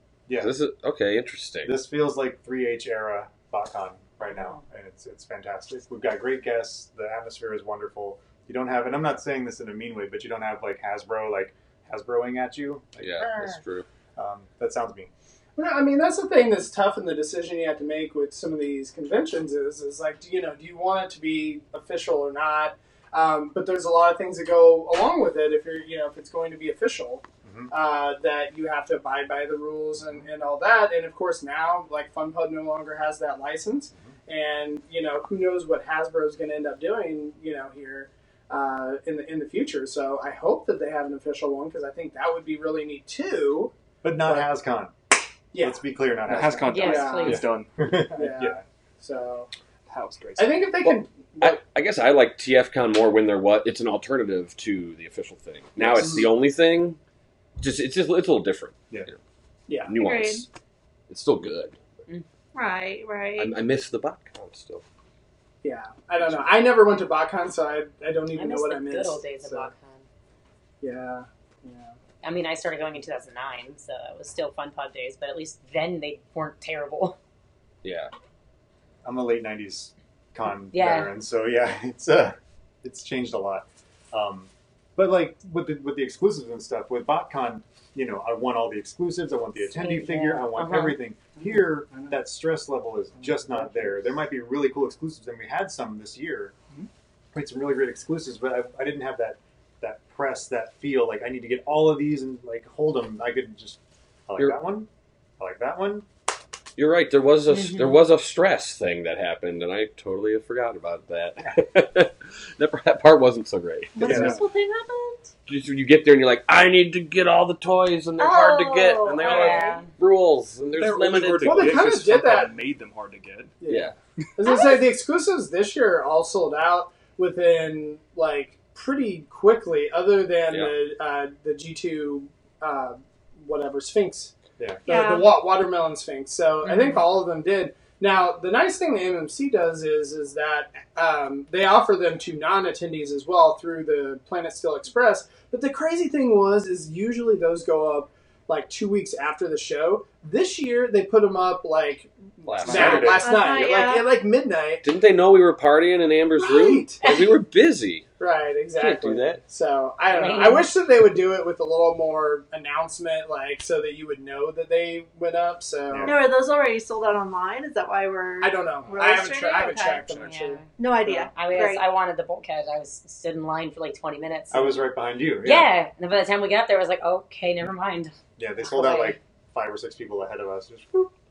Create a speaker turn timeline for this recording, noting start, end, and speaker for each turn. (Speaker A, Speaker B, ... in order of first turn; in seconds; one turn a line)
Speaker A: 0.3-0.5
Speaker B: 0.4-1.8
Speaker A: 1.6-13.6
Speaker B: 13.0-13.9
Speaker A: 14.2-15.1
Speaker C: 15.6-44.5
Speaker A: 27.4-27.7
Speaker A: 44.0-44.9
Speaker C: 45.5-45.8
Speaker A: 45.6-48.6
Speaker D: 46.3-47.8
Speaker C: 46.4-49.5
Speaker E: 46.7-47.5
Speaker D: 49.9-50.7
Speaker C: 50.4-51.6
Speaker B: 50.9-57.0
Speaker C: 56.0-56.2
Speaker B: 57.6-59.2
Speaker C: 59.7-60.0
Speaker B: 59.9-60.5
Speaker F: 60.0-60.5
Speaker B: 61.1-61.8
Speaker F: 62.5-63.5
Speaker B: 63.4-64.8
Speaker C: 65.6-69.7
Speaker E: 68.3-70.0
Speaker C: 70.8-72.0
Speaker E: 72.2-77.2
Speaker B: 77.8-78.1
Speaker A: 79.0-96.5
Speaker E: 80.7-81.1
Speaker E: 89.7-91.0
Speaker C: 93.2-94.0
Speaker A: 97.3-106.1
Speaker B: 106.8-114.3
Speaker E: 107.5-108.0
Speaker F: 114.0-115.3
Speaker A: 114.0-114.4
Speaker B: 115.5-121.8
Speaker F: 118.2-119.8
Speaker E: 119.2-119.9
Speaker D: 120.8-123.5
Speaker C: 121.4-122.6
Speaker C: 123.6-134.3
Speaker B: 123.7-123.9
Speaker F: 124.5-124.8
Speaker F: 134.9-135.3
Speaker C: 134.9-154.8
Speaker E: 136.7-137.0
Speaker B: 152.5-153.3
Speaker A: 152.7-153.2
Speaker F: 153.2-154.1
Speaker B: 154.8-158.1
Speaker C: 156.4-157.0
Speaker C: 158.2-166.2
Speaker B: 158.8-159.4
Speaker E: 160.1-160.7
Speaker F: 166.0-171.8
Speaker C: 168.4-171.3
Speaker E: 170.2-170.6
Speaker E: 171.3-174.8
Speaker A: 174.5-175.7
Speaker E: 175.4-179.2
Speaker A: 178.4-181.1